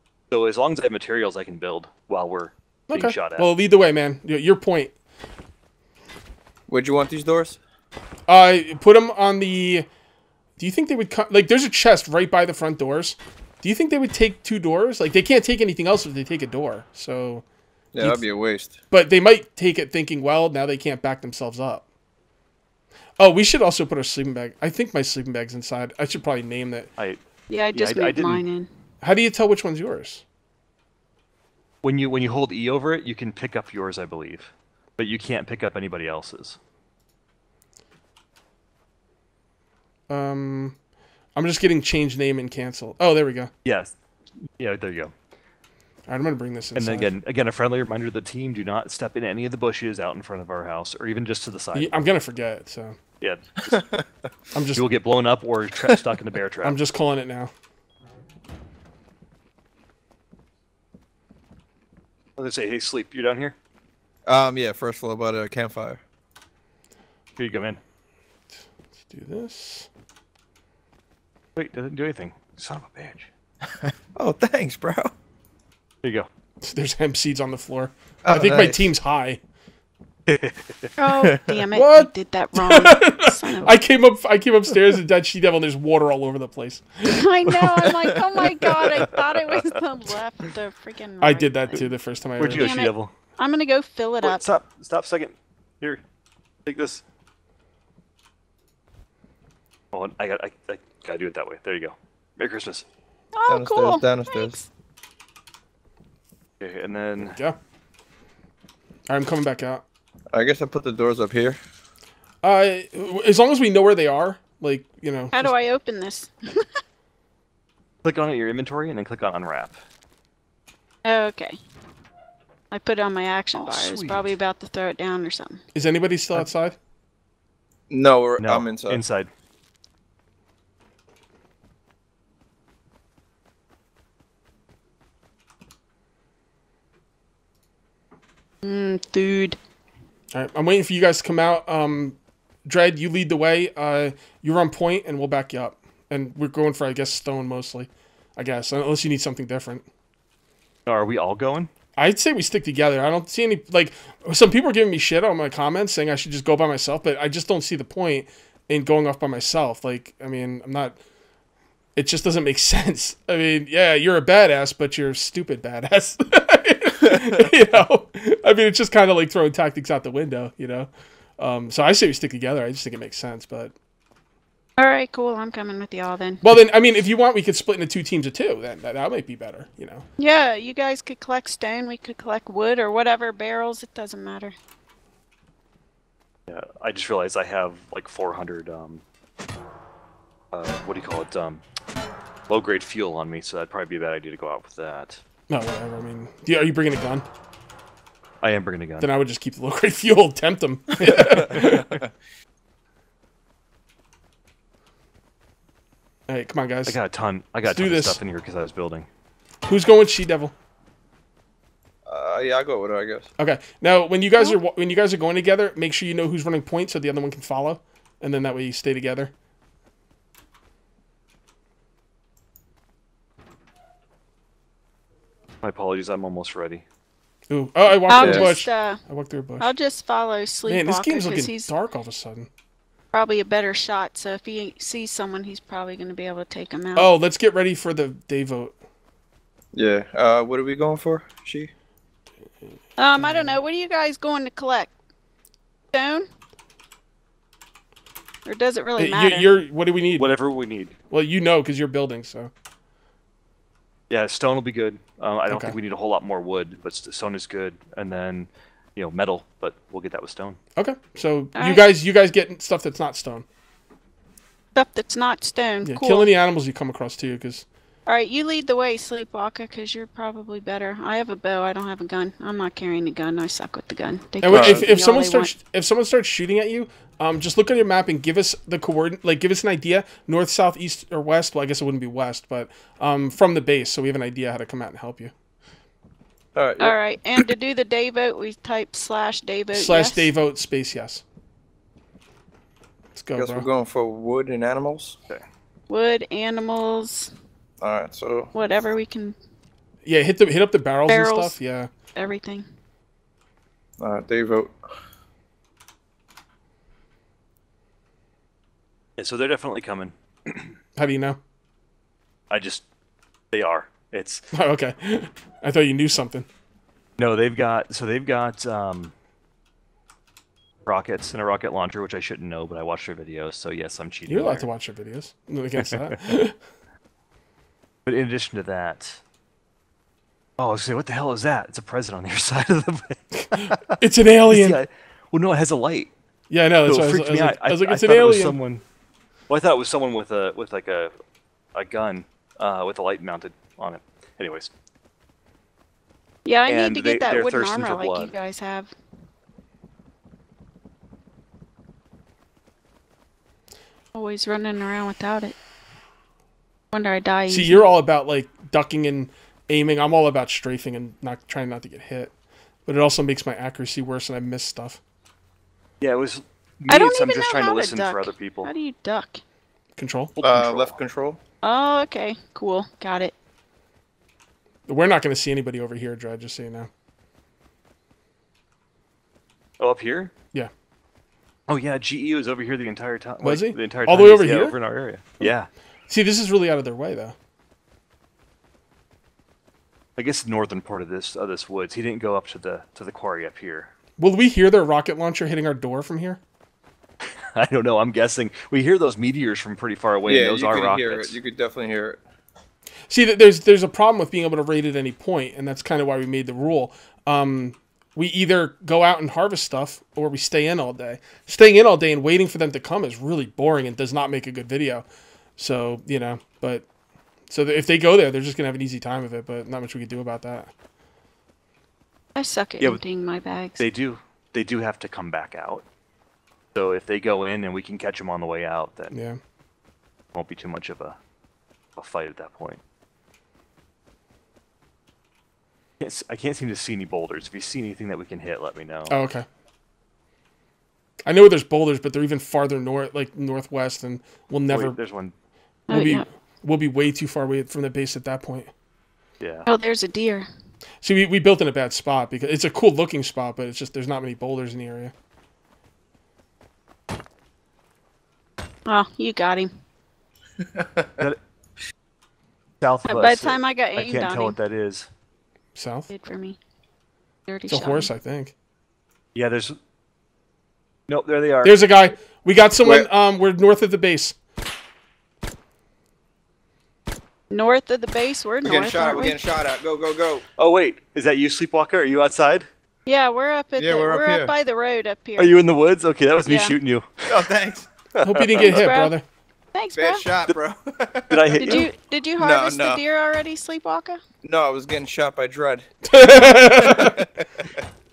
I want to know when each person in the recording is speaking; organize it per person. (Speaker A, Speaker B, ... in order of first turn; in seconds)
Speaker A: 0.3-3.5, 27.7-28.4, 31.8-36.6, 43.6-43.9, 44.6-45.1, 46.7-51.9, 53.2-53.7, 54.8-56.8, 62.4-63.5, 67.4-67.8, 71.5-73.3, 76.0-76.3, 80.2-80.9, 88.7-89.8, 92.4-93.1, 94.2-96.0, 96.7-97.0, 99.9-102.8, 106.6-107.4, 118.0-119.8, 123.6-124.2, 128.4-129.3, 150.8-151.7, 186.5-189.0, 190.5-191.6, 192.5-195.2, 198.4-199.1, 206.8-209.1, 225.6-226.8, 250.2-250.9, 254.1-260.6, 309.2-310.8, 312.5-312.8, 313.5-314.4, 317.2-319.1, 320.9-324.7, 325.8-326.1, 328.1-329.2, 330.6-336.1, 336.9-338.8, 339.5-341.1, 341.7-344.7, 346.7-348.3, 366.0-368.7, 370.4-371.0, 379.8-380.3, 381.7-385.7, 390.1-393.9, 397.6-401.4, 423.8-425.8, 426.7-429.1, 430.3-431.2, 432.0-432.8, 436.0-439.2, 444.7-445.3, 449.4-449.7, 462.8-465.1, 469.3-469.8, 471.1-471.8, 480.6-482.7, 485.4-487.4, 488.2-488.8, 491.3-491.9
Speaker B: 2.9-4.9, 8.3-9.9, 10.6-17.4, 18.9-21.8, 23.2-26.9, 29.0-30.2, 40.1-40.8, 41.3-43.5, 46.1-47.1, 51.7-53.0, 54.5-54.8, 56.6-57.5, 69.0-69.9, 76.6-79.4, 81.7-87.2, 91.2-92.7, 107.2-107.6, 109.1-109.8, 112.4-115.5, 125.7-126.8, 140.3-149.8, 152.0-160.9, 161.9-173.7, 176.4-180.0, 195.5-197.2, 199.0-202.0, 206.3-207.0, 207.7-208.2, 209.7-210.5, 213.4-219.3, 227.5-229.7, 230.7-232.5, 236.9-238.7, 243.2-243.6, 249.0-250.3, 251.1-252.5, 255.5-255.8, 260.8-263.4, 265.8-267.6, 274.4-285.3, 289.7-291.2, 293.1-293.7, 300.0-301.9, 310.9-311.4, 314.5-316.5, 324.3-326.6, 333.5-334.8, 336.5-338.6, 357.5-362.3, 362.9-365.0, 369.9-370.4, 374.9-376.9, 383.4-384.8, 386.1-387.3, 394.2-396.4, 403.1-415.0, 415.6-416.8, 417.5-420.7, 429.1-429.4, 439.1-439.4, 441.2-444.9, 445.9-448.7, 451.0-455.1, 465.7-466.1, 467.7-468.5, 471.6-474.4, 488.2-489.2, 496.0-497.2
Speaker C: 6.7-7.6, 17.9-18.8, 53.6-54.0, 64.2-66.0, 73.7-75.1, 78.2-78.9, 81.1-81.6, 103.5-104.6, 110.3-111.6, 127.9-129.0, 201.0-202.1, 212.1-213.3, 228.2-228.5, 239.7-241.7, 274.5-274.9, 286.5-286.9, 293.4-295.1, 297.8-298.5, 304.0-304.7, 370.4-371.4, 400.2-402.2, 460.8-461.3, 478.6-480.4, 483.8-484.5, 487.3-487.9, 489.9-491.9, 492.4-493.0, 494.4-497.7
Speaker D: 27.5-28.7, 81.0-83.8, 87.0-91.8, 92.5-94.4, 103.3-104.7, 115.3-116.7, 121.0-121.6, 122.7-125.6, 138.6-139.6, 174.8-176.4, 180.2-184.5, 228.1-229.0, 229.6-231.7, 233.1-237.1, 243.0-244.9, 245.9-246.3, 248.4-249.5, 261.6-261.8, 264.7-266.3, 268.1-275.5, 286.8-290.3, 295.9-297.3, 298.5-299.4, 301.1-301.6, 302.1-302.6, 346.4-348.9, 354.1-355.6, 356.9-357.8, 366.9-369.4, 371.6-373.3, 422.4-423.8, 445.9-446.2, 449.6-450.5, 458.9-459.7, 463.1-464.6, 466.1-466.6, 467.5-468.1, 477.5-479.4, 483.1-485.5, 486.4-486.8, 488.6-489.1, 489.7-490.2, 491.6-494.2